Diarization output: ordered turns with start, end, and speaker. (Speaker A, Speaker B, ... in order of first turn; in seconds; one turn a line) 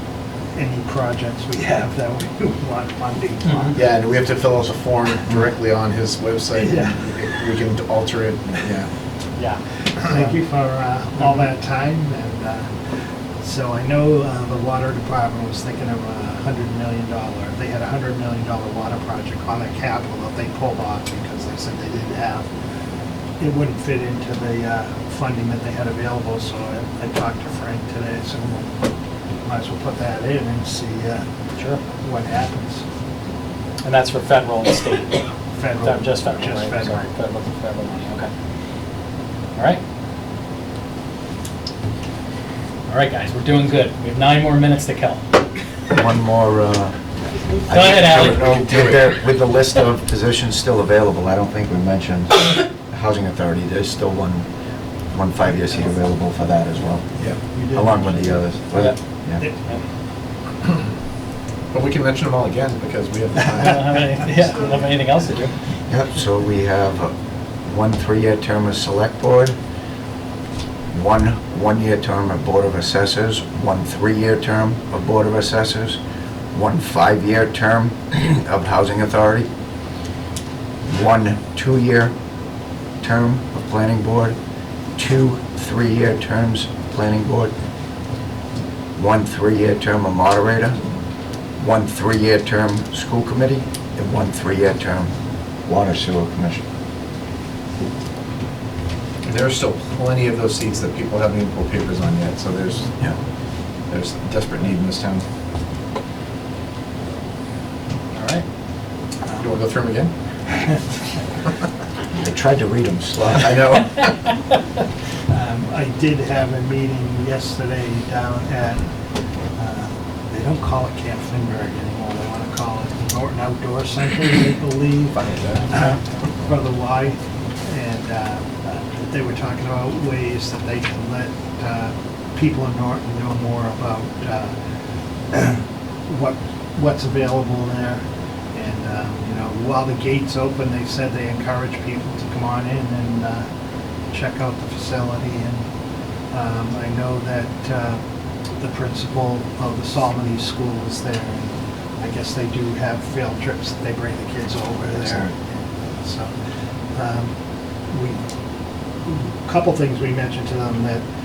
Speaker A: 0.5-4.0
Speaker B: 3.5-3.7
Speaker C: 3.7-8.9
Speaker A: 6.5-7.1
Speaker B: 9.4-9.6
Speaker A: 10.0-12.7
Speaker A: 13.4-22.5
Speaker A: 23.4-28.8
Speaker A: 29.4-31.2
Speaker B: 31.6-31.8
Speaker A: 32.0-32.8
Speaker B: 33.8-38.3
Speaker A: 35.5-37.1
Speaker B: 39.5-39.8
Speaker B: 42.9-45.2
Speaker D: 45.9-47.0
Speaker D: 47.6-54.5
Speaker B: 47.7-48.4
Speaker C: 48.0-49.1
Speaker D: 55.1-59.4
Speaker A: 57.2-58.6
Speaker C: 61.7-64.2
Speaker B: 63.5-65.5
Speaker D: 65.9-67.1
Speaker D: 67.7-69.5
Speaker D: 70.9-76.0
Speaker D: 76.5-79.5
Speaker D: 80.8-82.1
Speaker D: 83.0-84.3
Speaker D: 85.0-87.5
Speaker D: 89.0-90.8
Speaker D: 91.6-95.1
Speaker D: 95.6-96.6
Speaker C: 99.2-103.0
Speaker C: 103.9-105.2
Speaker B: 108.1-108.4
Speaker A: 109.2-109.6
Speaker C: 109.3-110.1
Speaker A: 110.5-110.8
Speaker D: 112.2-114.1
Speaker A: 115.3-118.9
Speaker A: 119.5-134.5
Speaker C: 125.1-125.9
Speaker A: 135.3-138.0
Speaker A: 138.5-143.4
Speaker A: 144.1-145.6
Speaker A: 146.3-148.0
Speaker A: 148.6-156.3
Speaker D: 155.0-155.3
Speaker A: 156.9-157.3
Speaker A: 157.9-158.2
Speaker A: 159.1-161.0